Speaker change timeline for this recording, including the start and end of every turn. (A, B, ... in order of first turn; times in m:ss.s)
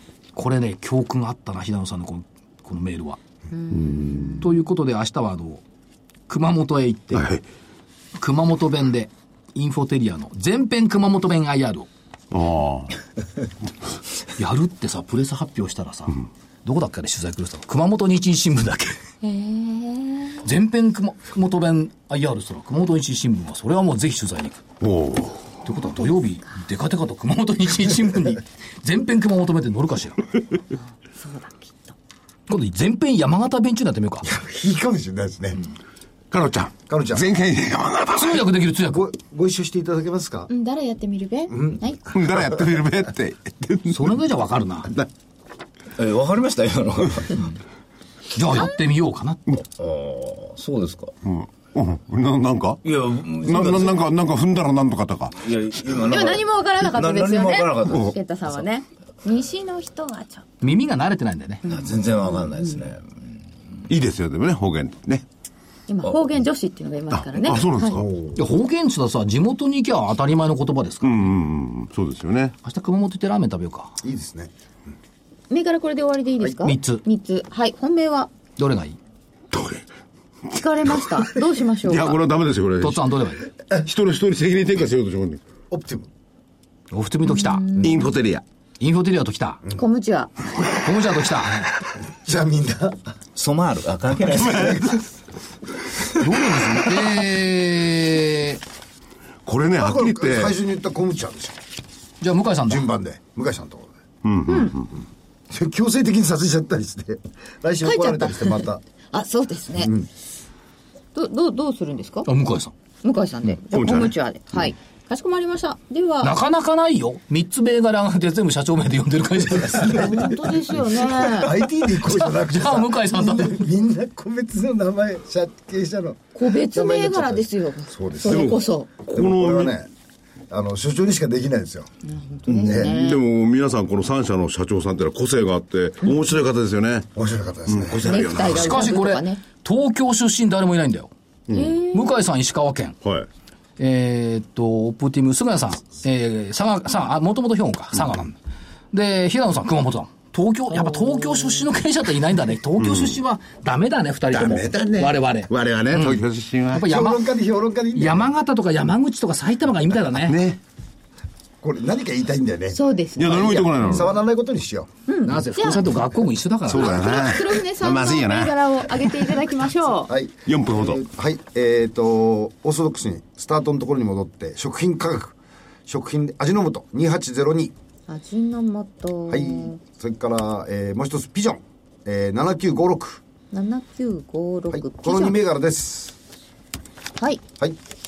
0:00.4-0:03.2 A
0:03.5-0:04.5 B
0:03.7-0:04.4 C
0:04.4-0:05.6 A
0:06.3-0:07.3 A
0:07.1-0:07.4 C
0:08.2-0:11.9 A
0:12.3-0:12.9 C
0:14.4-0:19.0 A
0:19.2-0:20.4 B
0:20.4-0:24.7 A
0:24.8-0:25.6 C
0:25.6-0:30.2 A
0:31.2-0:32.0 B
0:32.5-0:34.3 A
0:34.2-0:35.6 D
0:36.3-0:38.5 C
0:36.9-0:37.3 D
0:38.1-0:39.0 A
0:38.8-0:40.5 D
0:40.5-0:42.0 B
0:41.5-0:41.8 D
0:42.1-0:44.1 C
0:43.9-0:44.9 A
0:46.0-0:47.6 E
0:48.4-0:49.5 A
0:49.6-0:51.1 E
0:51.2-0:52.8 C
0:52.8-0:54.0 E
0:53.4-0:55.5 C
0:55.4-0:58.6 E
0:56.0-1:00.5 B
0:57.9-0:58.1 C
1:00.6-1:01.6 A
1:01.6-1:02.8 B
1:01.6-1:03.0 E
1:03.9-1:05.2 C
1:05.9-1:08.0 B
1:07.1-1:08.1 C
1:07.9-1:08.4 D
1:08.4-1:11.2 A
1:11.0-1:12.6 C
1:12.6-1:14.0 A
1:14.0-1:14.5 D
1:15.5-1:18.3 B
1:16.6-1:17.0 A
1:18.6-1:19.0 A
1:19.5-1:19.8 C
1:20.5-1:22.2 B
1:21.8-1:23.1 C
1:22.8-1:23.4 A
1:23.7-1:25.4 C
1:25.7-1:26.1 D
1:26.9-1:27.6 A
1:27.2-1:28.2 B
1:27.8-1:28.4 C
1:28.8-1:29.6 A
1:29.8-1:30.3 B
1:30.7-1:31.7 A
1:32.1-1:33.0 D
1:33.4-1:34.9 E
1:34.5-1:35.0 D
1:36.1-1:38.6 A
1:39.5-1:40.6 C
1:39.8-1:41.6 D
1:42.2-1:42.8 A
1:42.7-1:43.9 D
1:44.2-1:44.9 C
1:44.5-1:44.8 B
1:45.5-1:48.8 D
1:47.8-1:49.9 B
1:49.8-1:50.1 D
1:51.2-1:52.3 B
1:52.2-1:52.7 A
1:53.0-1:56.4 B
1:53.5-1:54.7 C
1:56.2-2:00.2 A
1:59.7-2:09.9 D
1:59.8-2:02.1 B
2:02.1-2:03.6 A
2:06.4-2:08.9 B
2:08.3-2:09.7 C
2:10.5-2:11.9 D
2:12.0-2:13.2 B
2:12.5-2:17.1 C
2:12.5-2:13.0 D
2:17.2-2:18.4 D
2:17.7-2:18.9 C
2:18.0-2:19.4 B
2:18.5-2:21.1 A
2:21.5-2:21.8 C
2:21.5-2:22.2 B
2:21.9-2:23.0 A
2:23.0-2:23.3 C
2:23.8-2:28.4 A
2:28.9-2:37.3 A
2:30.8-2:31.6 B
2:32.8-2:33.1 C
2:34.3-2:36.9 C
2:36.8-2:38.3 D
2:37.9-2:40.4 A
2:40.2-2:40.6 C
2:41.6-2:44.9 D
2:42.7-2:44.1 B
2:43.2-2:44.1 C
2:45.1-2:45.9 B
2:45.2-2:47.1 A
2:46.7-2:50.1 B
2:46.7-2:49.1 C
2:46.8-2:47.4 D
2:50.1-2:55.4 D
2:50.5-2:51.0 C
2:55.9-2:57.7 D
2:58.1-2:59.8 B
2:59.3-3:03.2 D
3:03.5-3:05.4 B
3:04.7-3:06.2 D
3:07.2-3:07.4 B